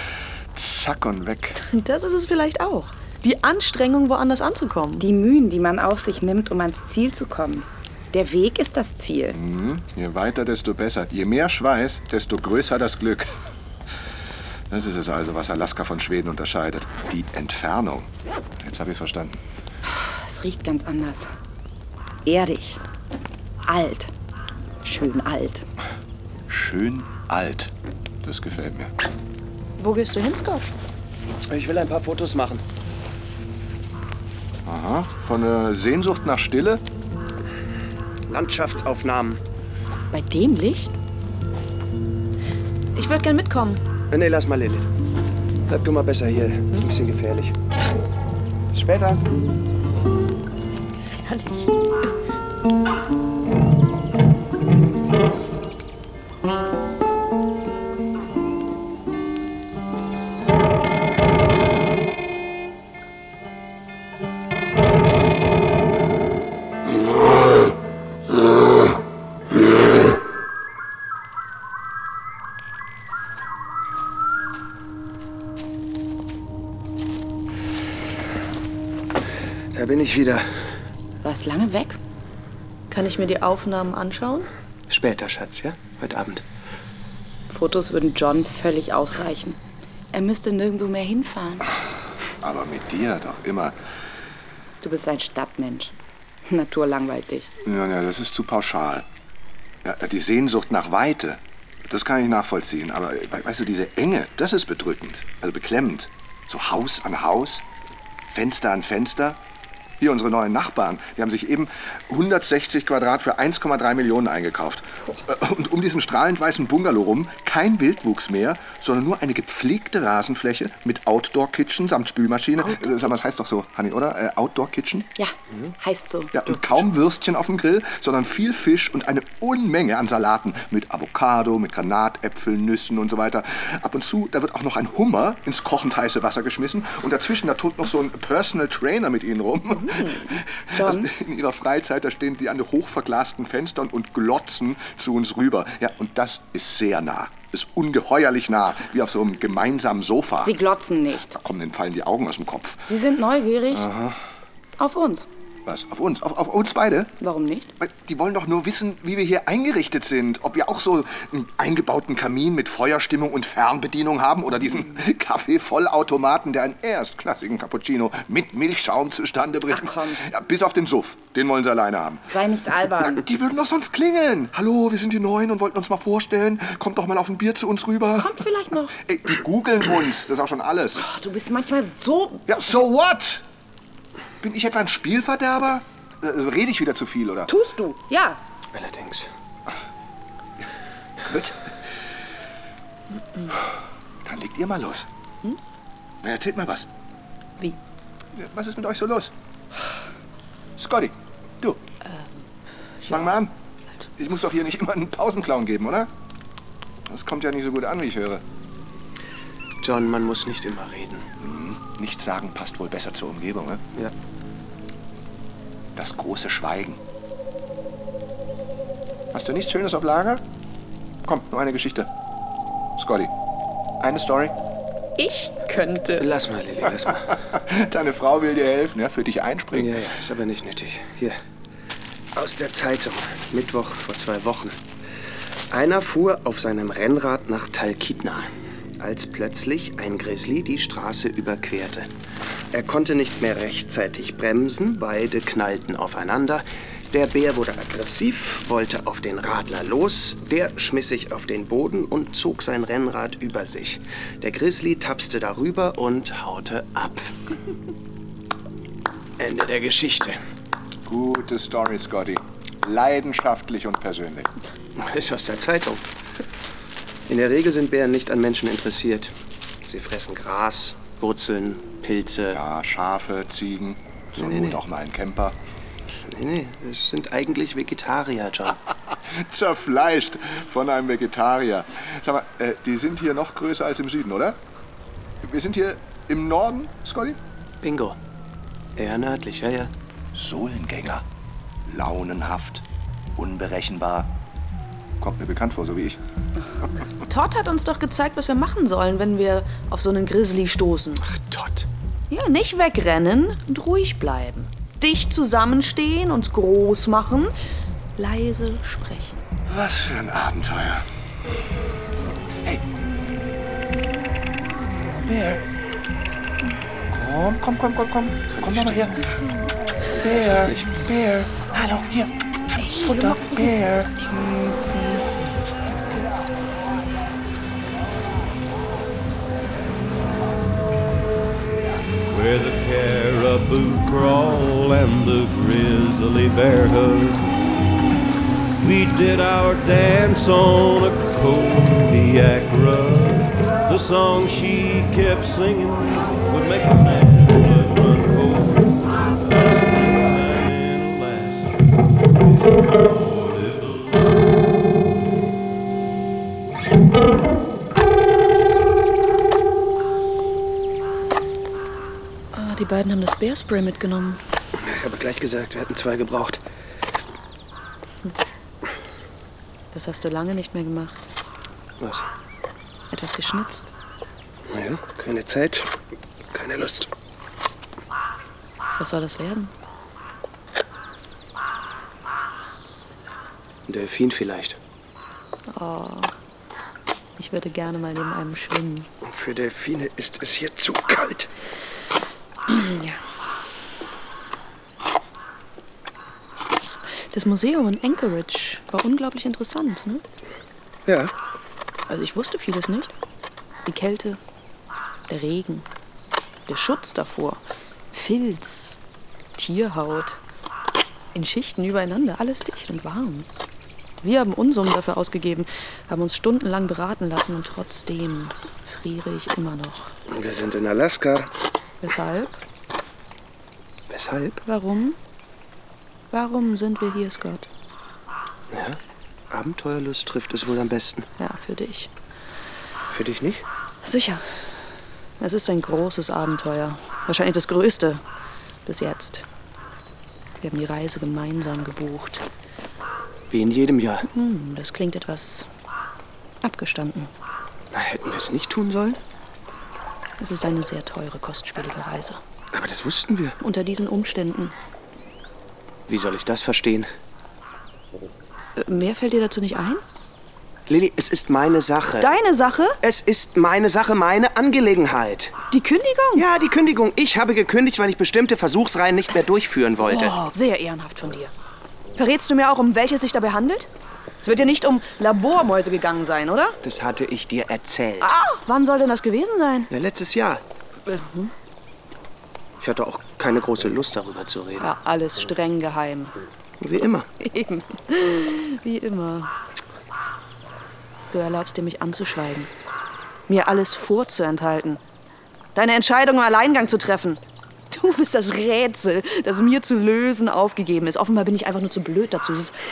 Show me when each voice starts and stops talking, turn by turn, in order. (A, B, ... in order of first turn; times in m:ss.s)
0:00.5-0:01.6 A
0:01.6-0:05.1 B
0:05.0-0:09.4 C
0:09.3-0:13.3 A
0:14.7-0:19.4 A
0:20.0-0:21.3 C
0:22.2-0:22.8 C
0:23.6-0:24.1 C
0:24.8-0:25.6 C
0:26.5-0:28.9 A
0:29.8-0:30.7 B
0:31.5-0:32.6 D
0:34.6-0:36.8 A
0:38.3-0:39.4 D
0:40.1-0:41.0 C
0:43.0-0:43.8 B
0:44.1-0:44.9 D
0:45.7-0:47.5 D
0:48.7-0:49.2 D
0:51.2-0:51.6 B
1:19.7-1:20.4 D
1:21.2-1:22.0 C
1:22.9-1:24.5 B
1:24.9-1:26.4 D
1:27.5-1:29.6 C
1:30.1-1:31.7 C
1:32.4-1:33.7 A
1:34.8-1:35.9 C
1:36.4-1:37.5 C
1:37.6-1:39.0 A
1:39.8-1:47.6 A
1:48.3-1:49.4 A
1:50.0-2:05.1 A
2:05.2-2:06.3 C
2:06.3-2:30.5 A
2:20.7-2:21.1 C
2:30.4-2:31.4 C
2:31.3-2:32.9 A
2:32.9-2:33.9 C
2:33.7-2:34.2 A
2:34.8-2:35.3 C
2:35.6-2:37.1 A
2:37.2-2:37.7 C
2:37.8-2:52.3 A
2:49.7-2:50.2 C
2:52.3-2:53.2 C
2:53.0-2:58.4 A
2:58.2-2:58.9 C
2:58.9-3:01.0 A
3:01.0-3:02.5 C
3:02.5-3:03.4 A
3:04.4-3:07.5 A
3:07.5-3:08.4 C
3:08.7-3:09.3 D
3:11.2-3:11.6 A
3:14.2-3:15.1 A
3:16.2-3:16.9 A
3:18.3-3:19.3 A
3:20.8-3:21.8 A
3:23.0-3:23.3 B
3:23.1-3:23.5 A
3:24.2-3:26.1 A
3:27.1-3:28.4 A
3:29.8-3:31.2 D
3:31.4-3:33.8 A
3:35.9-3:37.0 A
3:39.3-3:40.4 A
3:41.2-3:42.1 A
3:43.0-3:43.3 A
3:44.0-3:44.5 A
3:45.2-3:46.2 B
3:46.2-3:47.4 D
3:47.4-3:50.0 A
3:49.7-3:51.4 D
3:52.3-3:54.8 D
3:55.7-4:02.1 D
4:02.7-4:17.3 D
4:19.4-4:20.4 D
4:21.0-4:24.5 A
4:25.0-4:26.0 D
4:27.3-4:32.6 D
4:32.5-4:35.6 A
4:34.4-4:34.8 D
4:36.1-4:38.8 D
4:39.1-4:44.6 A
4:45.4-4:47.4 A
4:47.8-4:48.2 D
4:49.0-4:49.9 D
4:50.3-4:51.2 A
4:51.8-4:52.8 A
4:53.4-4:54.3 A
4:55.2-4:56.2 A
4:57.2-5:01.2 B
5:01.2-5:01.9 D
5:02.3-5:07.5 B
5:08.2-5:09.4 B
5:09.6-5:11.1 A
5:15.2-5:15.6 A
5:17.1-5:19.2 A
5:18.5-5:19.2 D
5:20.1-5:20.9 D
5:20.2-5:25.3 A
5:32.3-5:37.4 E
5:38.8-5:54.3 E
6:02.5-6:04.4 B
6:04.7-6:06.6 D
6:09.9-6:11.2 B
6:12.0-6:12.3 D
6:13.1-6:13.9 B
6:14.7-6:15.9 D
6:16.5-6:17.1 D
6:19.0-6:19.7 B
6:23.9-6:24.8 D
6:25.7-6:26.3 B
6:27.4-6:29.1 B
6:29.2-6:31.5 D
6:32.7-6:33.2 B
6:37.3-6:40.2 B
6:41.0-6:41.3 D
6:42.1-6:43.1 B
6:43.8-6:44.4 B
6:45.3-6:45.8 B
6:46.7-6:49.0 B
6:49.6-6:50.4 B
6:51.3-6:53.5 B
6:54.2-7:00.1 B
7:00.3-7:01.5 D
7:02.0-7:02.6 B
7:04.1-7:04.6 D
7:04.6-7:05.2 B
7:06.3-7:07.7 B
7:08.7-7:09.0 D
7:09.5-7:11.3 D
7:11.4-7:12.1 B
7:13.1-7:13.6 D
7:14.0-7:14.6 B
7:15.4-7:18.2 B
7:18.8-7:19.4 B
7:20.6-7:22.4 B
7:23.5-7:24.3 D
7:24.3-7:25.7 B
7:26.6-7:27.3 B
7:27.9-7:29.2 D
7:30.4-7:32.4 B
7:32.7-7:33.6 D
7:33.6-7:34.7 B
7:36.1-7:37.1 D
7:38.8-7:40.0 B
7:40.9-7:42.4 D
7:42.2-7:43.0 B
7:43.0-7:45.5 D
7:45.7-7:46.4 B
7:46.3-7:50.4 D
7:50.1-7:51.5 B
7:52.2-7:53.9 B
7:54.4-7:56.8 B
7:56.8-7:58.3 D
7:58.2-7:59.9 B
7:59.9-8:00.6 D
8:01.0-8:01.5 B
8:02.8-8:04.9 D
8:04.8-8:06.3 B
8:06.8-8:07.3 D
8:07.4-8:09.5 B
8:11.3-8:12.7 B
8:13.5-8:15.0 B
8:15.7-8:17.4 B
8:17.9-8:22.7 B